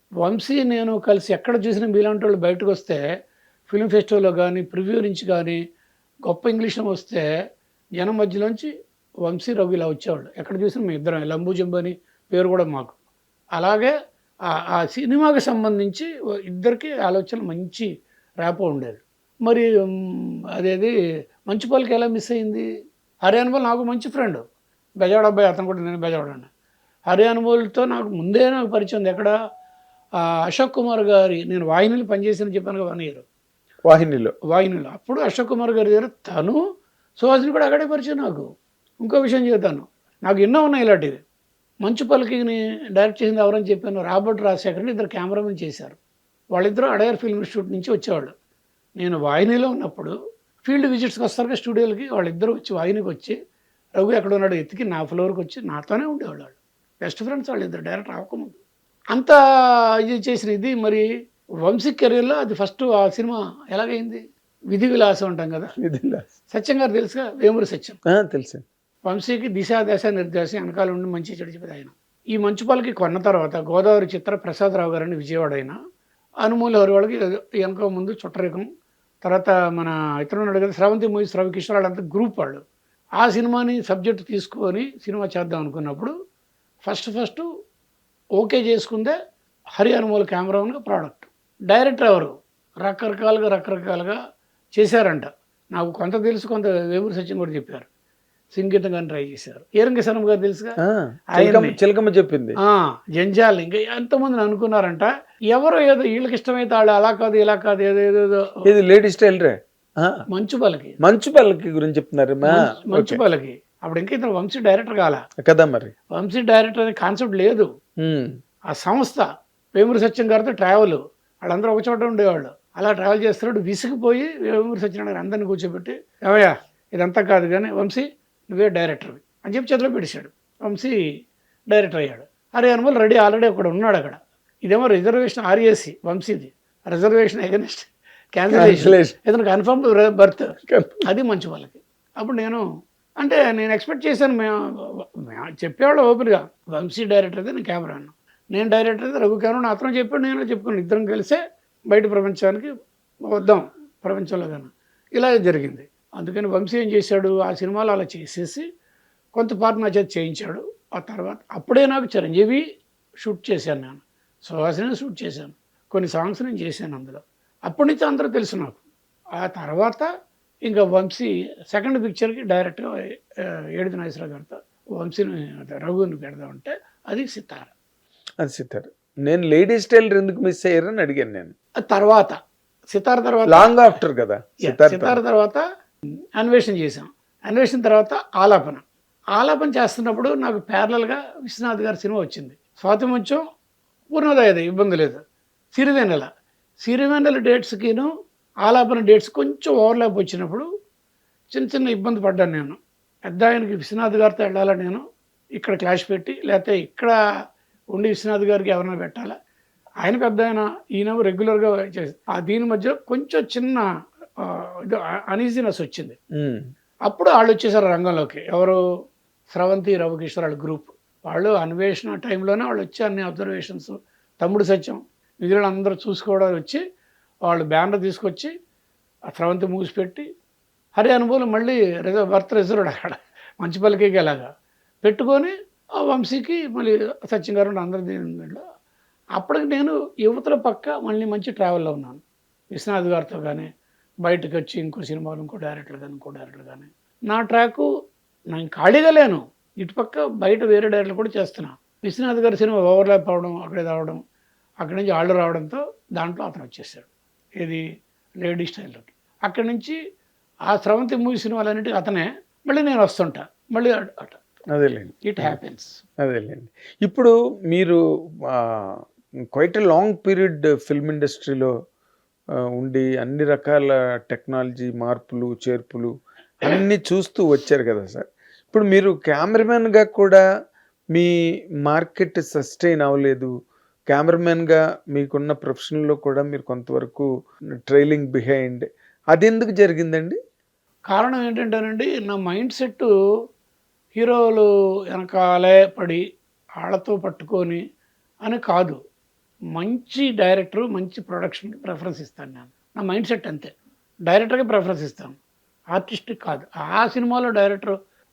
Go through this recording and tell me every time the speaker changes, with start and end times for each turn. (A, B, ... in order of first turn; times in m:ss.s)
0:00.2-0:03.0 A
0:03.7-0:05.6 A
0:06.3-0:07.2 A
0:08.0-0:08.7 A
0:09.2-0:13.0 A
0:13.5-0:13.9 A
0:14.5-0:17.9 A
0:18.4-0:20.9 A
0:21.5-0:22.7 A
0:23.2-0:24.4 A
0:25.0-0:26.5 A
0:27.1-0:29.3 A
0:30.5-0:33.2 A
0:33.8-0:34.3 B
0:34.5-0:36.6 A
0:37.2-0:38.5 A
0:39.0-0:41.2 A
0:41.8-0:46.0 A
0:46.5-0:48.3 A
0:49.0-0:53.4 A
0:54.0-0:58.6 A
1:00.0-1:01.0 A
1:01.6-1:05.7 A
1:05.8-1:06.3 B
1:06.5-1:08.0 A
1:08.1-1:08.6 B
1:09.0-1:15.8 A
1:16.4-1:18.7 A
1:19.2-1:22.6 A
1:23.2-1:26.1 A
1:26.8-1:27.5 A
1:28.4-1:29.2 A
1:29.8-1:34.2 A
1:34.8-1:37.9 A
1:38.5-1:40.8 A
1:40.8-1:42.6 B
1:41.3-1:41.8 A
1:42.6-1:48.5 A
1:48.7-1:50.2 B
1:50.3-1:50.9 A
1:51.0-1:53.2 B
1:52.4-1:55.2 A
1:55.4-1:55.9 B
1:56.1-1:57.7 A
1:58.0-1:58.3 B
1:58.7-2:11.0 A
2:11.7-2:22.6 A
2:18.5-2:19.1 B
2:20.7-2:21.0 B
2:23.2-2:32.7 A
2:33.3-2:38.6 A
2:39.3-2:42.6 A
2:43.2-2:48.8 A
2:49.4-2:50.1 A
2:50.6-2:57.7 A
2:58.4-3:01.5 B
3:01.8-3:02.4 A
3:02.9-3:03.8 A
3:03.5-3:05.2 B
3:04.6-3:05.6 A
3:06.4-3:08.8 A
3:09.4-3:13.4 A
3:14.1-3:15.2 A
3:15.7-3:16.3 A
3:16.8-3:18.1 A
3:18.6-3:20.7 A
3:21.5-3:25.0 A
3:25.6-3:27.2 A
3:27.9-3:29.3 A
3:30.0-3:33.8 A
3:34.4-3:36.2 A
3:36.3-3:36.6 B
3:37.1-3:38.8 A
3:39.5-3:46.8 A
3:47.4-3:48.5 A
3:49.3-3:50.2 A
3:50.9-3:54.5 A
3:55.0-3:58.6 A
3:59.4-4:02.2 A
4:02.7-4:03.7 A
4:04.2-4:07.9 A
4:08.5-4:14.2 A
4:14.8-4:17.1 A
4:18.4-4:20.0 A
4:20.7-4:24.4 A
4:24.7-4:25.6 B
4:25.2-4:26.0 A
4:26.2-4:31.7 B
4:32.8-4:40.4 B
4:41.8-4:43.5 B
4:44.1-4:47.3 B
4:47.9-4:50.4 B
4:51.1-4:53.1 A
4:54.1-4:56.2 A
4:56.8-4:57.8 A
4:58.4-4:59.0 A
4:59.7-5:03.7 A
5:04.3-5:05.4 A
5:05.9-5:08.0 A